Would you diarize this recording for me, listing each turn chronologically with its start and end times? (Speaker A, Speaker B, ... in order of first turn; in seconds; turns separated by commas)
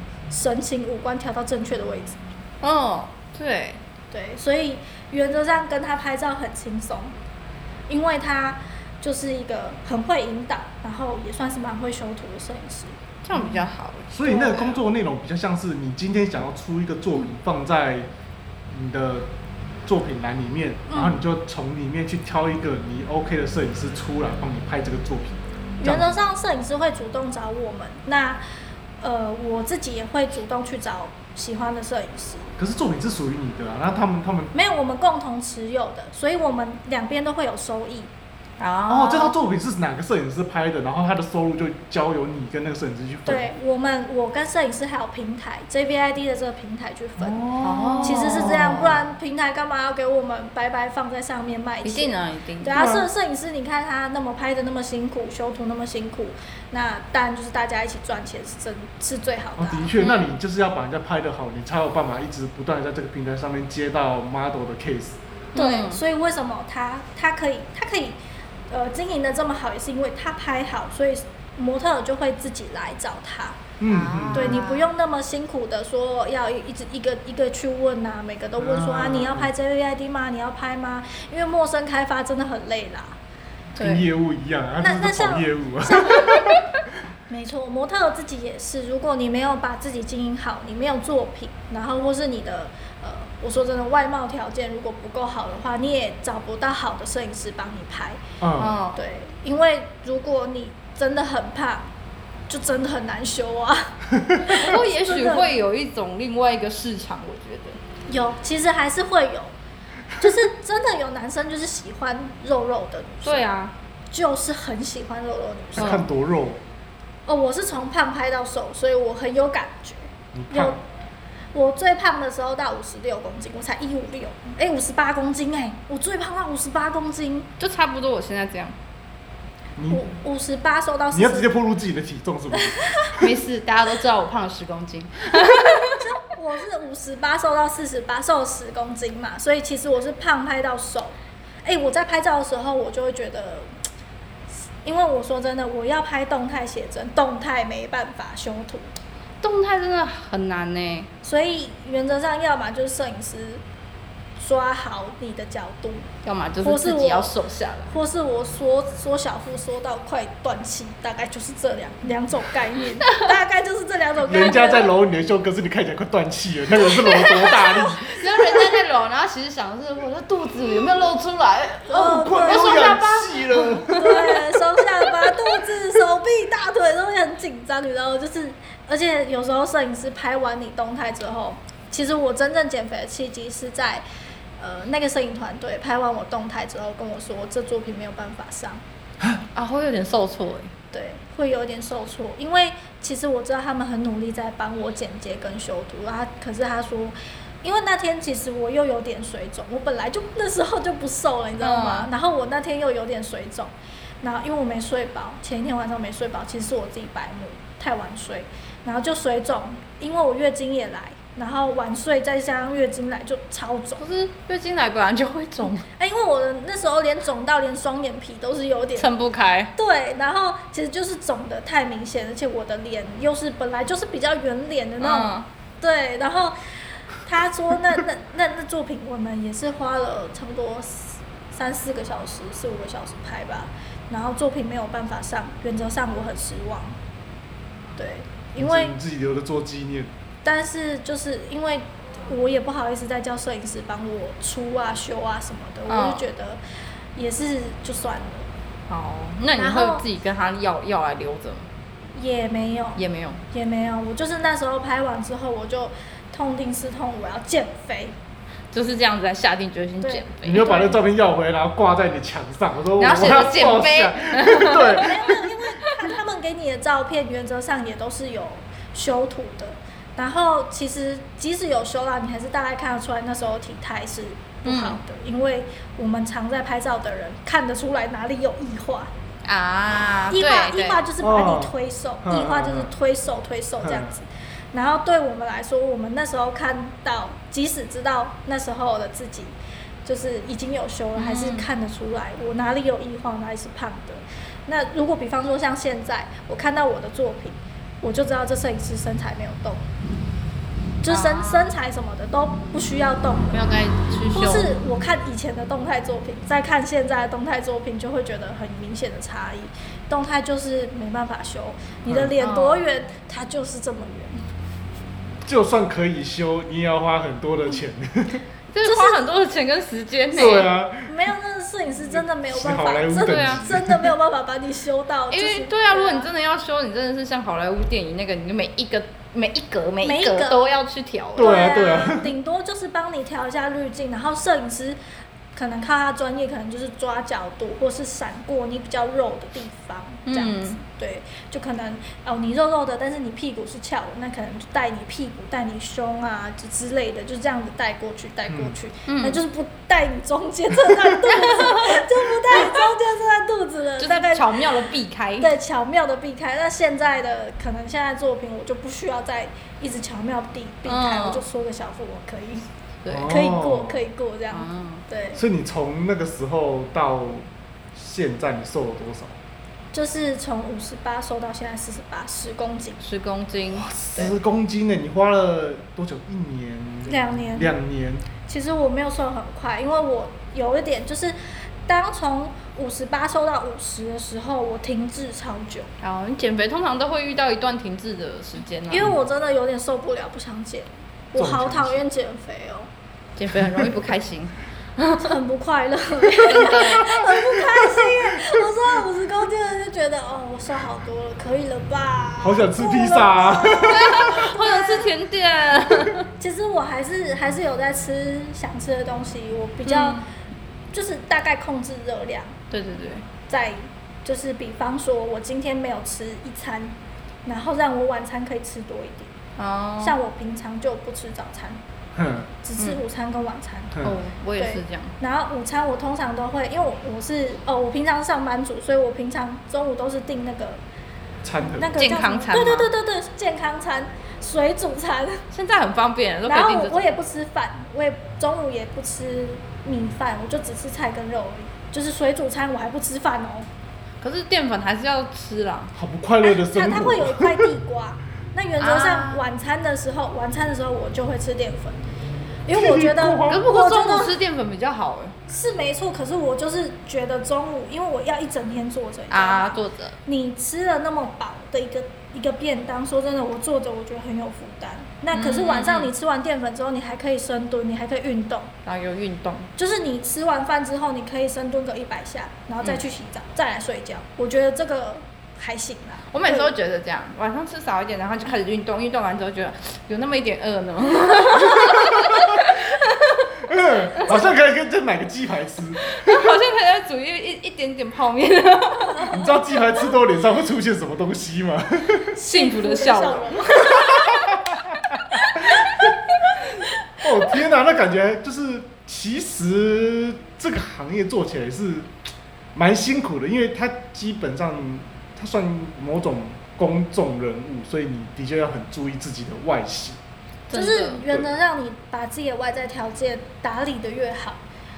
Speaker A: 0.3-2.2, Speaker B: 2.6-3.8, Speaker A: 4.1-7.1, Speaker A: 7.9-12.9, Speaker B: 13.2-14.8, Speaker C: 14.1-18.1, Speaker C: 18.7-19.3, Speaker C: 19.9-26.2, Speaker A: 20.9-21.2, Speaker A: 25.8-28.4, Speaker A: 29.0-32.5, Speaker C: 32.6-34.5, Speaker A: 34.5-38.1, Speaker B: 38.6-39.4, Speaker C: 38.9-43.5, Speaker A: 43.2-47.4, Speaker C: 47.2-49.0, Speaker B: 47.6-49.0, Speaker A: 48.0-59.9, Speaker B: 51.8-52.7, Speaker C: 52.7-53.1, Speaker C: 59.6-65.2, Speaker B: 60.0-60.3, Speaker B: 65.5-66.0, Speaker A: 65.5-68.2, Speaker A: 68.7-73.6, Speaker C: 73.8-74.6, Speaker B: 73.9-74.9, Speaker A: 74.3-83.2, Speaker C: 78.6-79.5, Speaker C: 83.8-86.6, Speaker B: 83.8-84.0, Speaker A: 84.8-86.5, Speaker A: 87.3-98.2, Speaker C: 98.4-98.8, Speaker B: 98.6-99.0, Speaker A: 98.9-101.9, Speaker A: 102.5-105.5, Speaker B: 104.5-107.8, Speaker A: 108.1-109.5, Speaker A: 110.2-113.5, Speaker B: 113.2-113.7, Speaker A: 114.1-116.0, Speaker C: 115.8-116.6, Speaker A: 117.3-120.8, Speaker C: 120.3-120.8, Speaker A: 121.5-127.5, Speaker B: 127.6-128.7, Speaker C: 129.8-130.0, Speaker A: 129.9-131.5, Speaker C: 131.1-133.3, Speaker A: 132.8-133.1, Speaker B: 133.2-136.0, Speaker A: 135.6-143.7, Speaker A: 144.8-148.9, Speaker B: 149.4-151.1, Speaker A: 151.2-153.6, Speaker A: 154.4-156.1, Speaker B: 156.2-157.9, Speaker A: 156.6-157.3, Speaker A: 157.9-164.9, Speaker C: 164.2-168.7, Speaker B: 167.0-174.3, Speaker A: 171.9-172.9, Speaker C: 171.9-174.4, Speaker A: 173.9-184.0, Speaker B: 175.1-175.3, Speaker A: 184.6-188.8, Speaker B: 189.5-190.7, Speaker A: 190.9-214.0, Speaker B: 201.6-202.1, Speaker B: 214.0-215.8, Speaker A: 215.9-219.1, Speaker B: 219.0-219.7, Speaker A: 219.8-226.6, Speaker B: 225.0-225.4, Speaker A: 227.2-237.0, Speaker A: 238.0-238.9, Speaker C: 238.6-240.1, Speaker A: 240.4-246.6, Speaker B: 245.9-246.2, Speaker A: 247.2-248.5, Speaker B: 248.9-251.7, Speaker A: 249.6-250.0, Speaker A: 252.1-258.1, Speaker B: 252.9-253.4, Speaker B: 258.7-260.9, Speaker A: 260.0-260.7, Speaker C: 260.4-265.4, Speaker B: 263.0-265.3, Speaker A: 264.9-279.1, Speaker B: 274.6-275.0, Speaker B: 279.4-281.1, Speaker A: 280.3-289.5, Speaker C: 281.2-282.9, Speaker C: 283.8-284.1, Speaker A: 290.0-299.9, Speaker B: 291.1-291.7, Speaker A: 301.0-303.7, Speaker B: 301.1-301.8, Speaker B: 303.5-304.7, Speaker A: 304.3-314.4, Speaker C: 312.1-312.3, Speaker B: 312.4-312.8, Speaker C: 315.4-318.4, Speaker B: 318.7-320.7, Speaker A: 318.8-319.3, Speaker C: 320.3-321.2, Speaker A: 321.1-326.3, Speaker C: 322.4-324.1, Speaker B: 323.2-323.7, Speaker B: 325.3-331.8, Speaker A: 330.0-330.6, Speaker C: 331.4-332.3, Speaker A: 331.4-335.0, Speaker A: 335.5-362.6, Speaker B: 340.3-340.8, Speaker C: 348.5-348.7, Speaker B: 349.1-349.4, Speaker B: 351.4-352.9, Speaker B: 354.0-355.5, Speaker B: 360.9-361.4, Speaker B: 363.0-363.3, Speaker C: 363.1-364.0, Speaker A: 363.2-365.4, Speaker B: 364.5-365.0, Speaker C: 365.3-369.4, Speaker A: 369.9-373.0, Speaker B: 373.0-373.9, Speaker C: 373.7-378.2, Speaker A: 377.0-377.7, Speaker A: 378.5-385.9, Speaker B: 386.0-389.1, Speaker A: 388.9-392.9, Speaker C: 391.3-392.0, Speaker B: 393.4-395.4, Speaker A: 395.2-405.0, Speaker B: 396.3-397.3, Speaker C: 398.0-398.6, Speaker C: 402.4-404.4, Speaker B: 403.8-406.3, Speaker A: 406.4-410.2, Speaker B: 409.8-410.2, Speaker A: 410.9-412.5, Speaker B: 412.7-413.2, Speaker A: 413.5-419.3, Speaker B: 419.6-420.2, Speaker A: 420.0-421.8, Speaker C: 422.1-422.5, Speaker A: 422.6-424.0, Speaker B: 424.0-425.1, Speaker A: 424.6-430.8, Speaker C: 431.4-431.9, Speaker A: 431.6-435.4, Speaker B: 432.0-432.9, Speaker B: 435.5-437.1, Speaker A: 436.4-443.7, Speaker B: 444.2-445.9, Speaker C: 445.9-447.7, Speaker A: 446.4-452.0, Speaker B: 448.8-449.4, Speaker A: 452.6-454.4, Speaker C: 452.7-453.7, Speaker B: 453.4-455.4, Speaker A: 455.5-468.7, Speaker B: 459.3-460.1, Speaker B: 465.3-466.1, Speaker B: 468.8-469.7, Speaker A: 469.8-476.7, Speaker B: 476.3-483.5, Speaker C: 481.7-482.7, Speaker C: 483.6-486.5, Speaker B: 486.1-489.5, Speaker C: 489.2-492.3, Speaker A: 492.3-494.4, Speaker B: 492.4-493.7, Speaker C: 493.8-496.1, Speaker C: 497.2-502.1, Speaker C: 502.7-510.2, Speaker B: 510.7-511.2, Speaker A: 510.7-514.6